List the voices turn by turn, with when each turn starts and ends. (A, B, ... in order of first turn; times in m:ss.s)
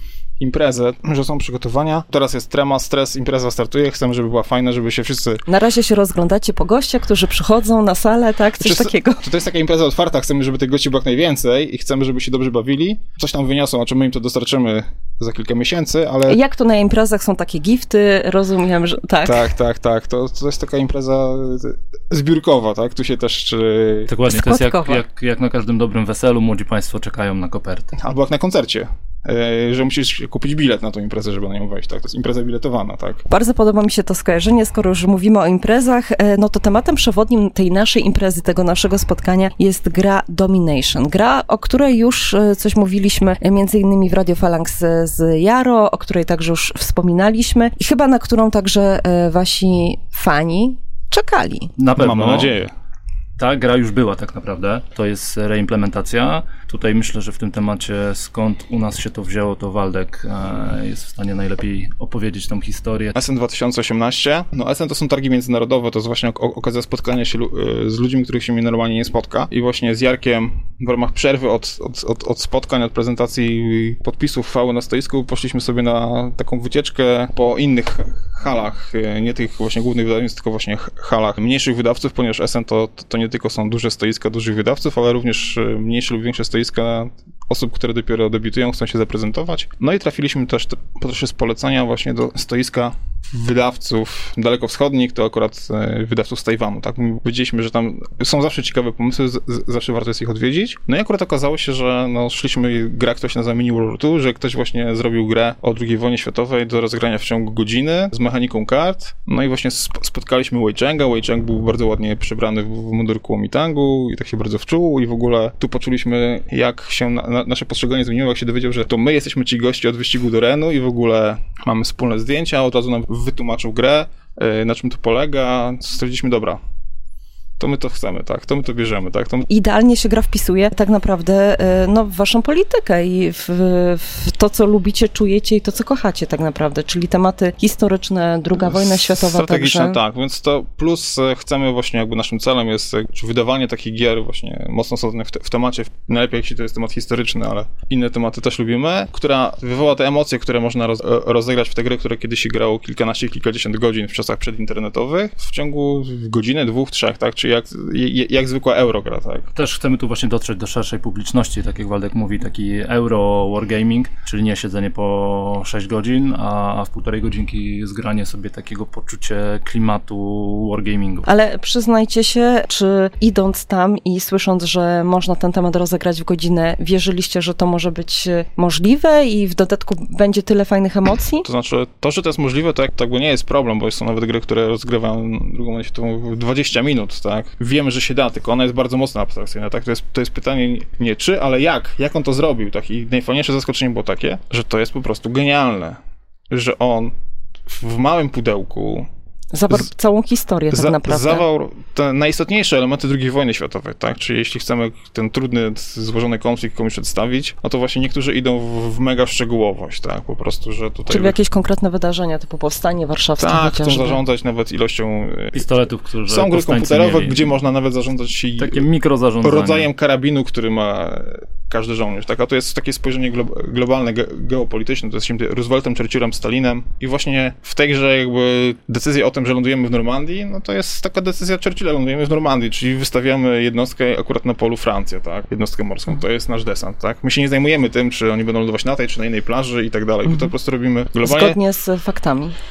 0:00.4-0:05.4 A
0:05.5-0:09.3 B
0:08.6-0:16.4 A
0:16.3-0:19.5 B
0:19.2-0:24.1 A
0:24.1-0:28.0 C
0:24.3-0:25.0 B
0:28.0-0:33.2 A
0:33.3-0:51.7 B
0:51.8-0:52.5 C
0:52.0-0:52.7 A
0:53.4-1:03.2 C
1:03.2-2:06.6 A
2:07.6-2:09.5 A
2:09.5-2:20.0 B
2:18.6-2:39.5 A
2:39.6-2:51.3 C
2:51.2-3:01.5 B
3:01.4-3:16.0 A
3:16.5-3:17.2 A
3:17.7-3:19.1 A
3:19.5-3:21.4 B
3:20.7-3:31.4 A
3:31.1-3:34.2 B
3:33.4-3:35.7 A
3:35.5-3:37.4 C
3:36.3-3:38.9 A
3:38.6-3:39.9 C
3:39.4-4:01.6 A
4:01.2-4:02.6 B